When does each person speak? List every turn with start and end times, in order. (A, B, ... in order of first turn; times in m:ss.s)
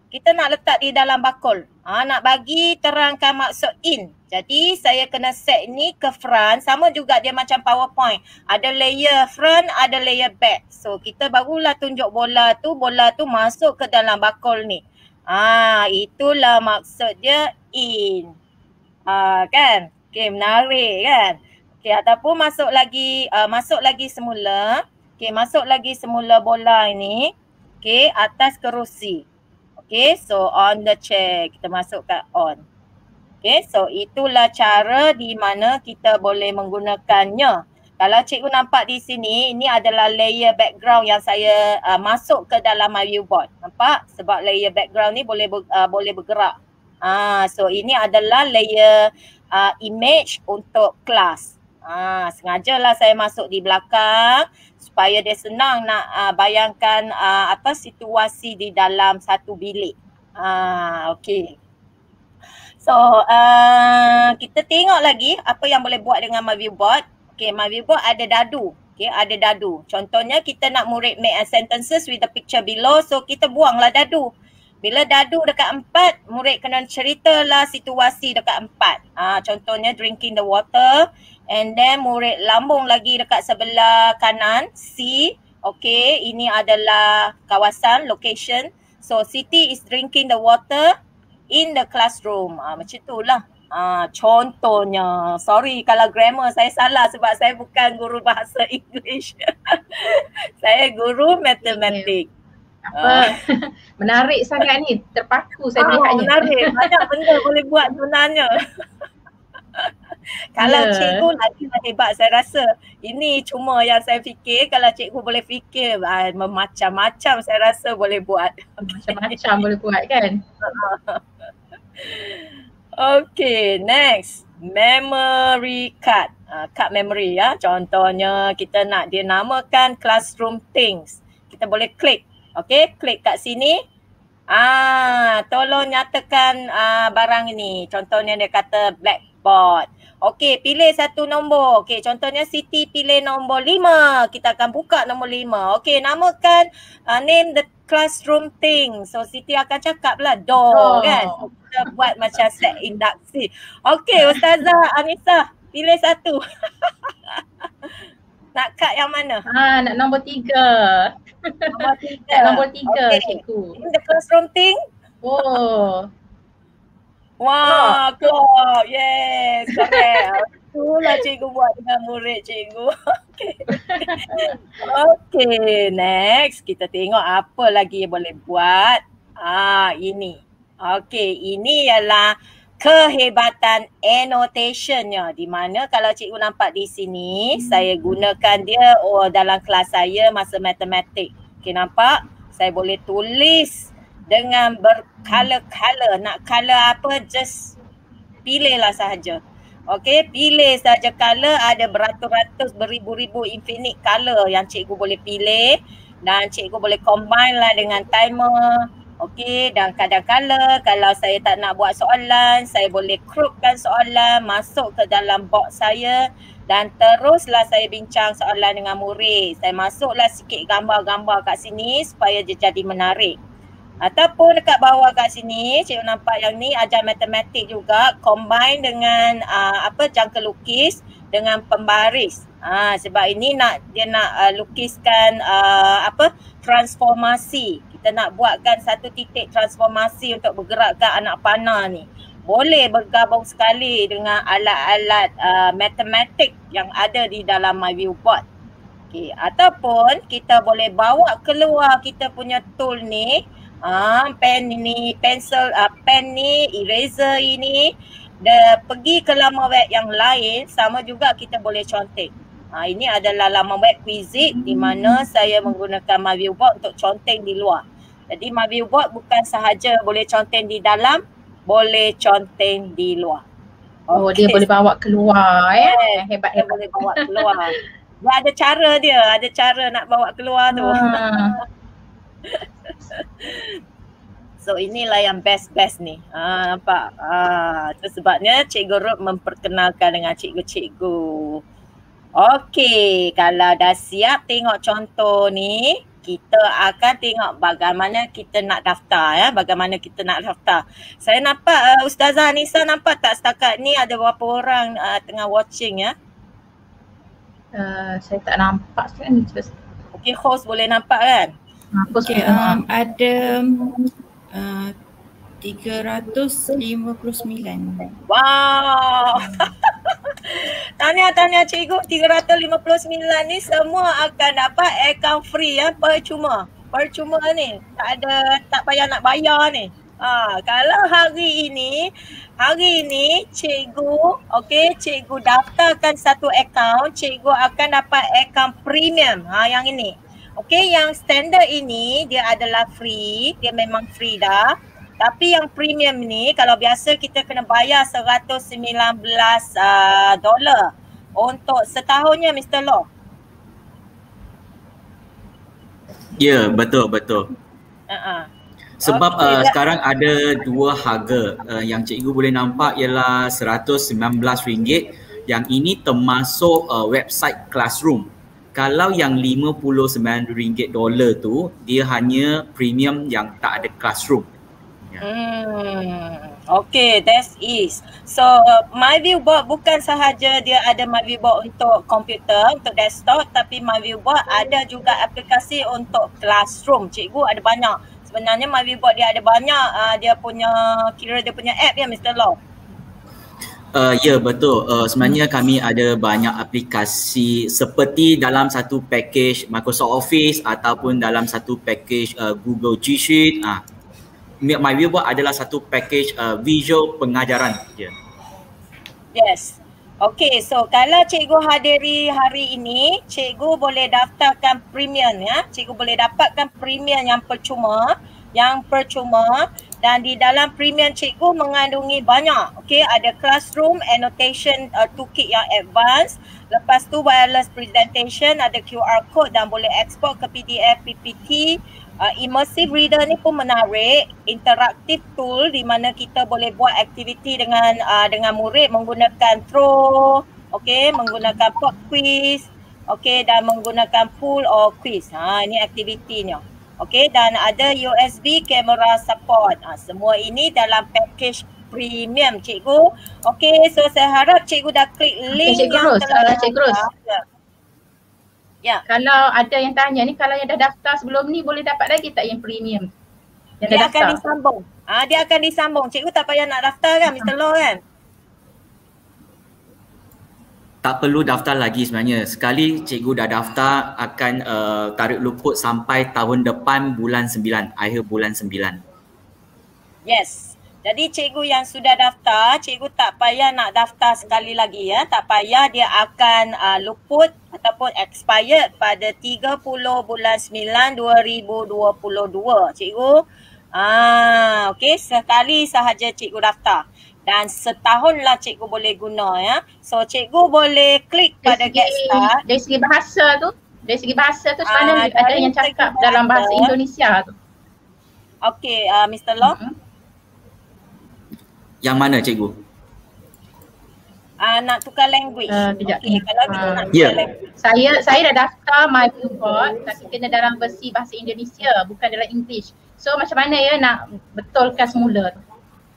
0:00.1-0:18.3 A
0:19.1-0:29.2 A
0:29.8-0:32.6 A
0:33.4-1:01.5 A
1:02.8-1:14.3 A
1:14.8-1:30.9 A
1:31.5-1:42.3 A
1:41.6-1:42.1 B
1:42.9-1:47.0 B
1:42.9-1:43.3 A
1:45.8-1:48.5 A
1:50.6-1:59.3 A
1:50.6-1:51.3 B
1:58.8-2:00.4 B
2:00.6-2:01.2 A
2:02.0-2:02.4 A
2:03.0-2:13.8 A
2:14.5-2:37.9 A
2:30.7-2:31.4 B
2:38.5-2:39.4 A
2:39.5-2:41.8 B
2:41.7-2:44.8 A
2:42.3-2:43.8 B
2:45.2-2:46.1 B
2:47.4-3:17.7 A
2:47.6-2:48.0 B
2:49.8-2:50.2 B
2:53.7-2:54.5 B
3:07.6-3:07.9 B
3:18.4-3:43.4 A
3:44.0-4:08.4 A
4:09.1-4:33.4 A
4:24.5-4:25.3 B
4:34.1-4:34.6 A
4:34.1-4:37.5 B
4:35.8-4:41.6 A
4:40.7-4:41.6 B
4:42.4-4:43.8 A
4:44.6-4:51.6 A
4:52.4-5:06.1 A
5:07.8-5:09.7 B
5:10.1-5:11.5 A
5:12.0-5:12.8 B
5:12.3-5:13.9 C
5:14.5-5:14.9 C
5:15.6-5:18.1 C
5:18.3-5:53.1 A
5:56.4-5:57.5 D
5:58.1-5:58.5 A
5:59.0-6:14.5 D
5:59.0-5:59.8 A
6:15.2-6:32.6 A
6:33.9-6:43.8 D
6:44.6-6:48.1 D
6:49.3-7:37.4 A
7:35.5-7:37.0 B
7:39.1-7:43.0 B
7:43.8-7:44.4 B
7:43.9-7:48.0 A
7:51.0-7:59.0 D
8:00.2-8:22.6 A
8:21.6-8:27.5 B
8:24.8-8:26.9 A
8:28.6-8:29.8 A
8:29.6-8:29.9 B
8:32.0-8:32.8 D
8:34.6-8:37.5 A
8:35.7-8:37.0 B
8:37.8-8:45.5 B